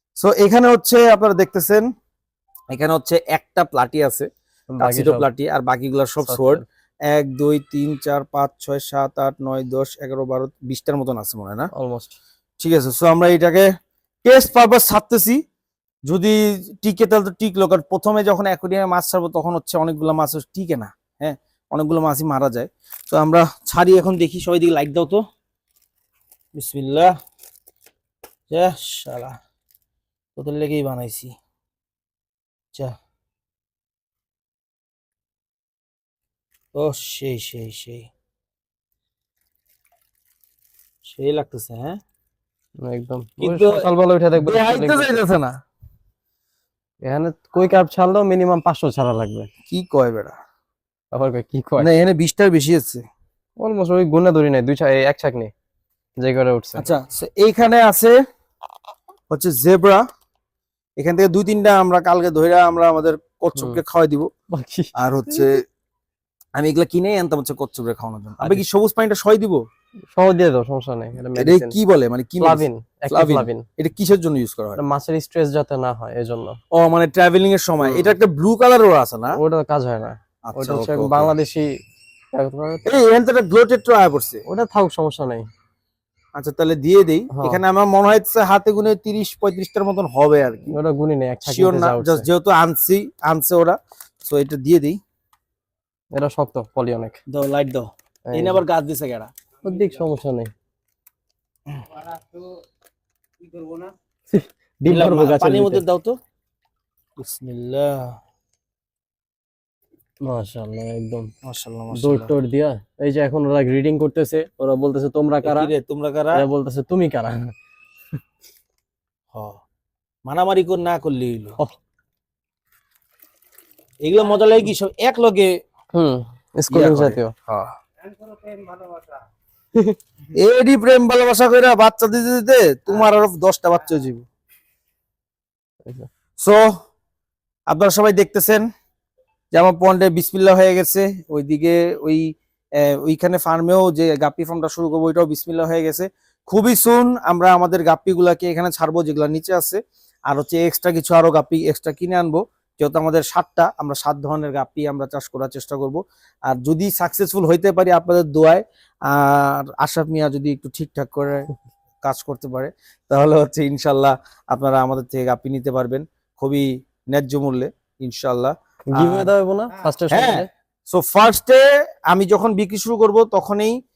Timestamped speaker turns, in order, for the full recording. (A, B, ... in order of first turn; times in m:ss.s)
0:00.2-0:01.8 A
0:02.7-0:11.7 A
0:04.8-0:05.2 B
0:06.2-0:06.6 B
0:11.8-0:12.2 B
0:12.6-0:13.6 A
0:14.2-0:15.4 A
0:16.1-0:25.2 A
0:26.5-0:27.1 A
0:28.5-0:29.4 A
0:30.4-0:31.3 A
0:36.7-0:38.1 A
0:41.1-0:42.0 A
0:42.8-0:45.2 B
0:43.4-0:43.8 A
0:44.4-0:45.6 A
0:47.0-0:49.5 B
0:49.7-0:50.4 A
0:51.1-0:51.9 B
0:51.8-0:53.0 A
0:53.6-0:55.5 B
0:56.2-0:56.9 B
0:56.8-0:58.2 A
0:59.3-1:00.0 A
1:01.0-1:04.3 A
1:04.5-1:05.4 B
1:05.0-1:05.6 A
1:06.6-1:09.6 A
1:10.1-1:11.8 B
1:11.3-1:14.8 A
1:12.4-1:13.6 B
1:14.8-1:16.6 B
1:16.7-1:19.4 A
1:17.8-1:18.1 B
1:19.3-1:21.7 B
1:20.4-1:21.3 A
1:22.3-1:22.8 B
1:22.8-1:24.4 A
1:24.5-1:25.5 B
1:26.4-1:30.8 A
1:27.3-1:27.6 B
1:30.7-1:32.3 B
1:31.4-1:35.0 A
1:36.1-1:37.2 B
1:37.3-1:39.3 A
1:38.3-1:38.6 B
1:39.6-1:40.5 B
1:44.3-1:45.8 B
1:44.9-1:46.1 A
1:47.2-1:48.2 A
1:50.2-1:51.3 B
1:51.4-1:52.3 A
1:51.9-1:55.7 B
1:55.4-1:56.4 A
1:56.3-1:57.5 B
1:59.3-1:59.6 A
2:00.2-2:01.6 A
2:04.0-2:05.5 A
2:05.9-2:07.3 B
2:06.7-2:07.7 A
2:08.4-2:08.9 B
2:10.3-2:14.2 A
2:16.4-2:16.6 A
2:17.7-2:18.6 A
2:19.5-2:41.5 A
2:42.0-2:49.3 A
2:48.9-2:50.5 B
2:50.1-2:53.8 A